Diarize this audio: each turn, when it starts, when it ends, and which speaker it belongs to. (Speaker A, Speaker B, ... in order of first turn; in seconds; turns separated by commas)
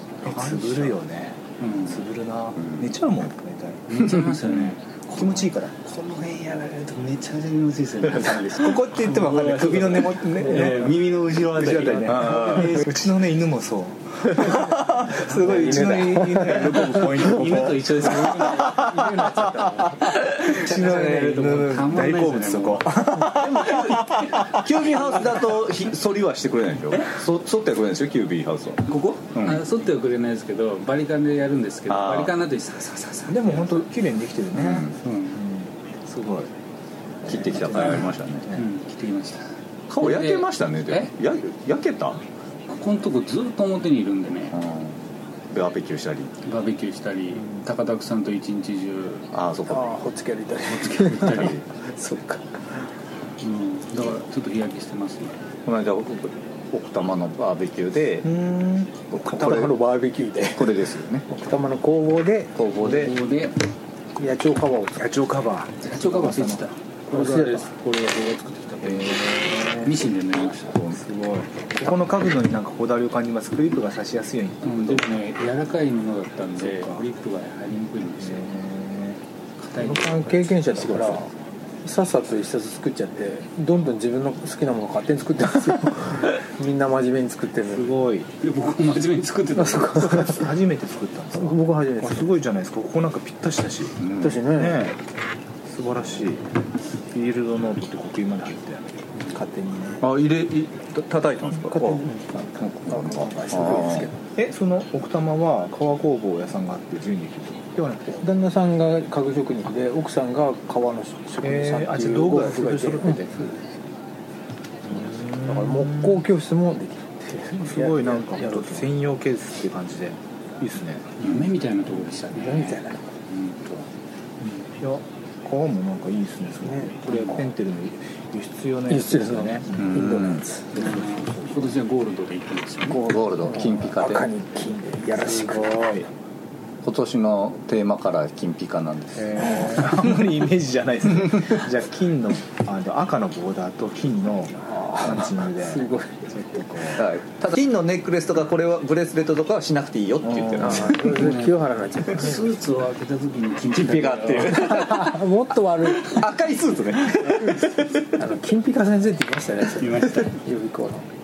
Speaker A: 0.2-5.8, Speaker B: 0.3-0.9, Speaker B: 1.6-2.0, Speaker C: 2.6-2.9, Speaker B: 3.9-13.2, Speaker A: 8.5-11.0, Speaker A: 11.5-18.7, Speaker C: 11.7-12.7, Speaker D: 14.4-17.0, Speaker C: 16.6-17.5, Speaker B: 17.1-19.4, Speaker D: 18.0-21.4, Speaker A: 20.0-24.6, Speaker B: 20.4-25.4, Speaker C: 24.6-29.6, Speaker B: 28.9-33.9, Speaker C: 31.9-32.3, Speaker A: 33.3-36.5, Speaker C: 34.5-35.0, Speaker B: 35.0-35.4, Speaker A: 37.2-38.7, Speaker C: 37.3-38.5, Speaker B: 37.6-41.1, Speaker C: 39.9-42.2, Speaker B: 42.7-44.6, Speaker C: 44.5-46.3, Speaker B: 46.5-49.2, Speaker C: 49.3-50.0, Speaker D: 49.7-52.8, Speaker B: 50.7-51.6, Speaker C: 51.2-51.6, Speaker B: 53.4-55.4, Speaker C: 55.7-58.3, Speaker A: 58.2-59.1, Speaker C: 59.1-59.8, Speaker D: 59.2-63.2, Speaker C: 60.5-61.3, Speaker C: 62.7-63.1, Speaker B: 62.8-63.5, Speaker D: 64.2-65.1, Speaker A: 65.0-66.7, Speaker B: 65.8-70.8, Speaker D: 67.1-67.7, Speaker A: 68.8-70.1, Speaker C: 70.5-71.0, Speaker A: 70.9-75.1, Speaker B: 74.6-78.5, Speaker A: 76.6-77.1, Speaker A: 78.2-79.2, Speaker B: 79.6-81.2, Speaker D: 79.8-81.3, Speaker D: 81.8-87.9, Speaker A: 87.7-88.3, Speaker B: 88.4-90.3, Speaker D: 89.6-90.4, Speaker A: 89.9-95.0, Speaker D: 91.3-92.3, Speaker C: 94.0-94.5, Speaker D: 94.2-94.9, Speaker A: 95.7-96.4, Speaker A: 97.1-99.1, Speaker D: 99.3-100.0, Speaker C: 100.0-104.1, Speaker D: 101.7-104.2, Speaker A: 104.3-108.3, Speaker D: 108.2-113.4, Speaker A: 111.4-113.6, Speaker A: 114.9-116.2, Speaker D: 114.9-118.9, Speaker A: 117.5-121.2, Speaker B: 121.2-123.8, Speaker D: 122.3-123.1, Speaker A: 124.4-130.0, Speaker D: 126.7-127.2, Speaker D: 128.9-130.5, Speaker C: 129.8-130.5, Speaker A: 130.7-131.8, Speaker B: 130.7-133.1, Speaker C: 132.9-134.3, Speaker D: 133.3-136.0, Speaker A: 135.2-136.1, Speaker C: 136.8-139.9, Speaker A: 139.2-147.1, Speaker D: 144.7-146.2, Speaker C: 147.0-151.3, Speaker A: 150.2-150.9, Speaker D: 150.6-152.5, Speaker B: 151.0-154.9, Speaker C: 153.7-158.1, Speaker D: 154.5-156.4, Speaker D: 157.0-161.1, Speaker B: 159.8-160.4